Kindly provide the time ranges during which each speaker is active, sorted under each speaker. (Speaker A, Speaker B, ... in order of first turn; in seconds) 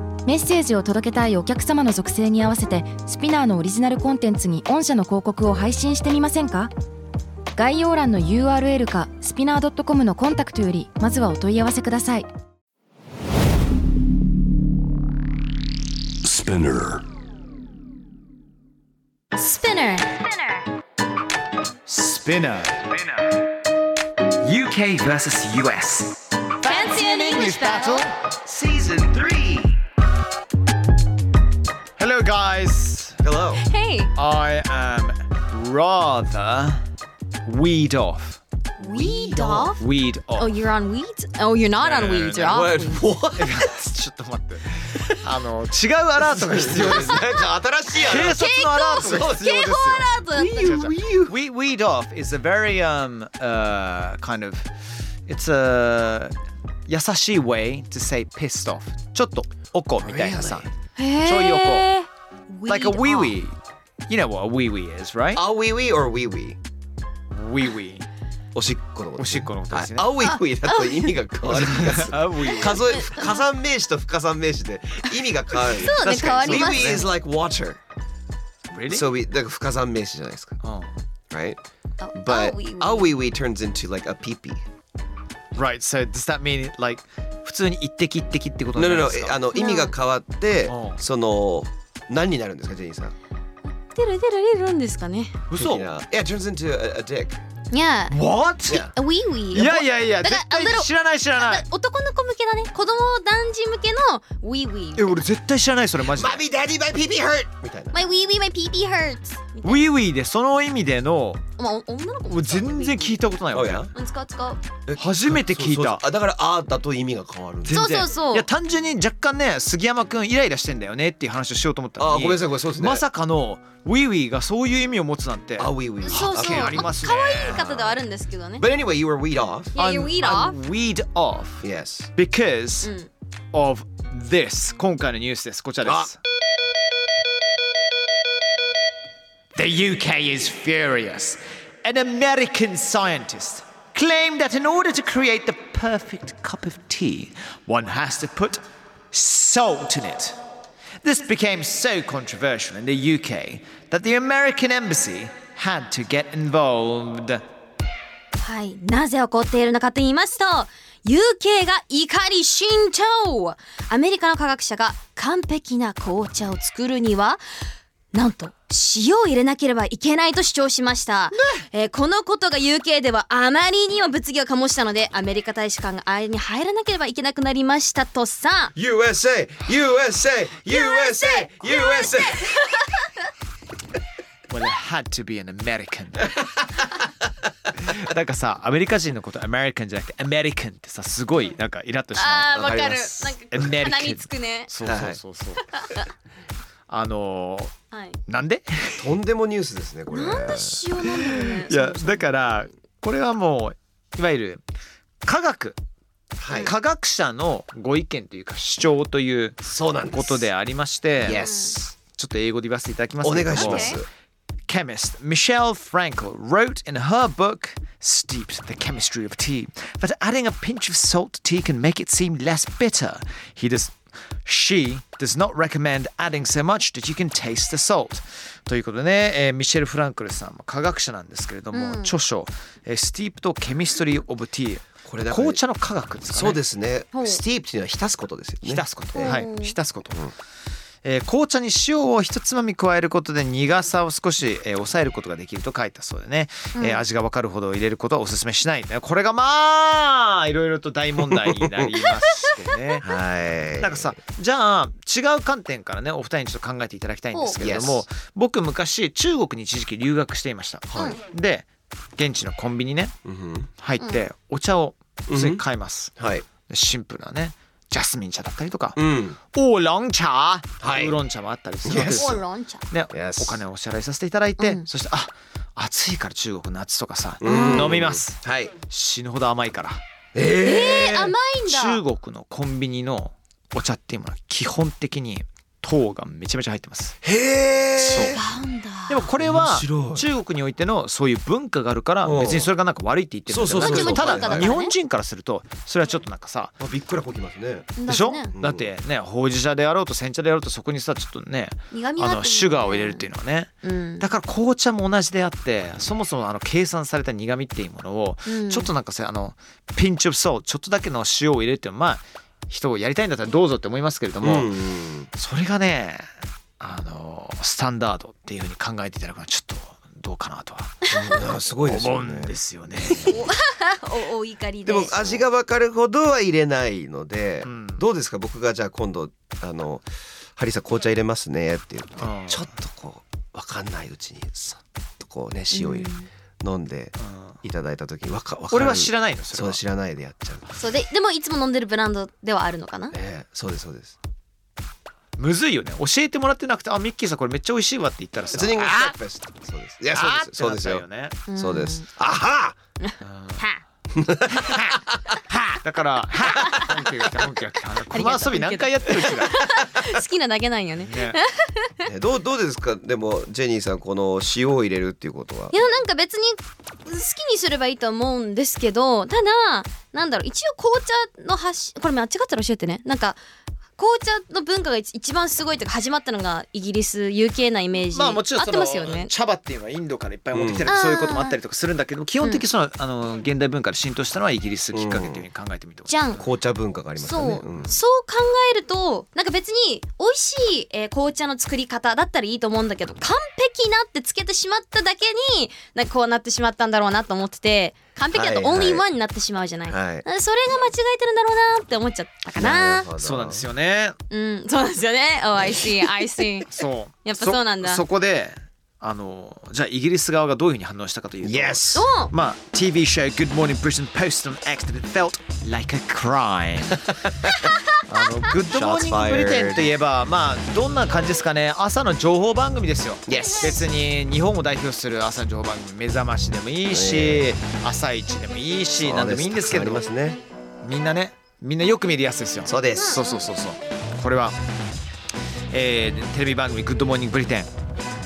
Speaker A: 0.2-6.7, 7.5-12.3
Speaker B: 16.3-17.0, 28.4-29.8, 33.2-33.7, 38.8-39.8, 42.4-43.7, 46.2-48.4, 49.0-49.5, 50.3-51.4, 60.0-60.7, 65.3-66.6, 68.5-77.8, 78.9-80.6, 81.3-81.6, 82.2-84.7, 88.8-93.2, 95.6-97.4, 98.7-98.9, 106.0-108.0, 113.5-113.9, 114.9-117.9, 122.0-123.0, 125.6-126.9, 128.6-129.7, 131.6-132.1, 135.8-136.1, 178.8-182.6, 192.6-193.6, 194.8-195.2, 199.0-200.9, 206.4-206.8, 209.7-210.4, 211.2-211.9, 213.2-214.1, 235.1-235.6, 236.3-239.4, 251.3-251.9, 253.0-254.2, 257.6-258.0, 260.9-261.2, 263.2-263.7, 265.3-265.6, 266.2-266.5, 269.0-269.4, 270.8-271.2, 271.8-272.4, 273.1-273.6, 277.4-278.7, 280.3-281.3, 287.2-288.4, 289.4-290.3, 292.2-292.7, 293.5-294.7, 296.8-297.9, 298.6-298.9, 314.4-315.3, 321.1-323.3, 324.9-340.7, 343.1-344.1, 348.5-352.8, 354.1-355.4, 356.5-357.0, 362.1-365.8, 380.5-380.9, 384.9-385.4, 386.4-388.0, 398.3-399.1, 399.9-400.2, 402.6-403.6, 411.4-412.1, 418.6-419.9, 423.3-423.9, 426.9-427.5, 429.0-430.4, 432.6-433.2
Speaker C: 19.3-20.7, 26.6-28.1, 33.7-34.1, 38.8-43.1, 46.9-47.2, 48.0-50.8, 61.0-63.4, 70.2-71.2, 72.4-73.4, 75.6-77.1, 82.0-83.1, 89.5-89.9, 93.7-95.4, 97.7-98.2, 98.9-105.3, 107.9-109.9, 111.6-113.2, 114.0-114.6, 117.7-118.5, 126.1-128.7, 129.8-130.6, 132.8-133.1, 158.3-167.4, 168.1-178.7, 180.7-183.3, 192.2-194.7, 195.7-196.1, 197.9-198.2, 200.1-202.3, 206.5-206.7, 211.3-211.8, 213.5-214.0, 231.7-232.1, 237.1-237.4, 239.2-239.8, 246.8-247.0, 272.1-272.8, 274.6-274.9, 277.4-277.9, 280.6-282.0, 288.1-289.3, 293.8-294.9, 298.0-298.5, 301.9-303.2, 303.8-304.3, 308.5-308.9, 323.2-325.4, 335.7-336.3, 340.8-343.2, 351.5-352.0, 353.0-353.8, 358.1-362.1, 365.7-373.4, 374.0-379.3, 380.9-381.6, 386.1-386.4, 387.2-403.1, 404.3-408.0, 411.9-412.3, 423.4-423.8, 433.0-433.5
Speaker D: 21.9-23.4, 24.4-28.1, 32.0-33.2, 34.2-36.8, 37.5-38.4, 39.8-40.6, 41.8-42.7, 43.4-47.3, 48.0-54.7, 55.3-56.3, 56.9-60.7, 61.2-61.9, 62.7-63.5, 64.1-65.4, 67.3-68.1, 69.2-70.2, 71.4-73.0, 76.0-77.1, 78.7-79.1, 80.6-80.9, 85.5-89.4, 90.7-91.0, 95.5-95.9, 98.1-98.9, 99.5-101.7, 105.0-106.4, 109.7-111.4, 112.3-113.9, 115.0-116.0, 117.7-128.0, 129.8-131.7, 132.2-132.9, 133.5-136.2, 139.6-148.6, 149.1-150.4, 151.0-157.4, 184.5-186.4, 187.8-196.0, 196.9-197.8, 198.3-199.1, 201.2-204.6, 205.2-205.8, 206.6-211.5, 212.1-214.0, 214.7-236.6, 238.6-240.3, 241.0-253.1, 253.8-263.1, 263.8-269.0, 269.5-280.0, 281.7-287.2, 288.0-288.4, 289.1-296.7, 298.1-314.8, 315.4-316.2, 316.8-321.1, 321.7-323.4, 327.6-328.0, 332.2-332.7, 337.2-337.6, 338.7-339.8, 345.4-349.2, 350.1-351.4, 353.2-353.7, 354.5-355.0, 355.5-359.6, 361.1-361.4, 378.1-386.4, 403.2-404.2, 406.7-417.3, 418.1-430.0, 430.8-434.6, 435.7-437.7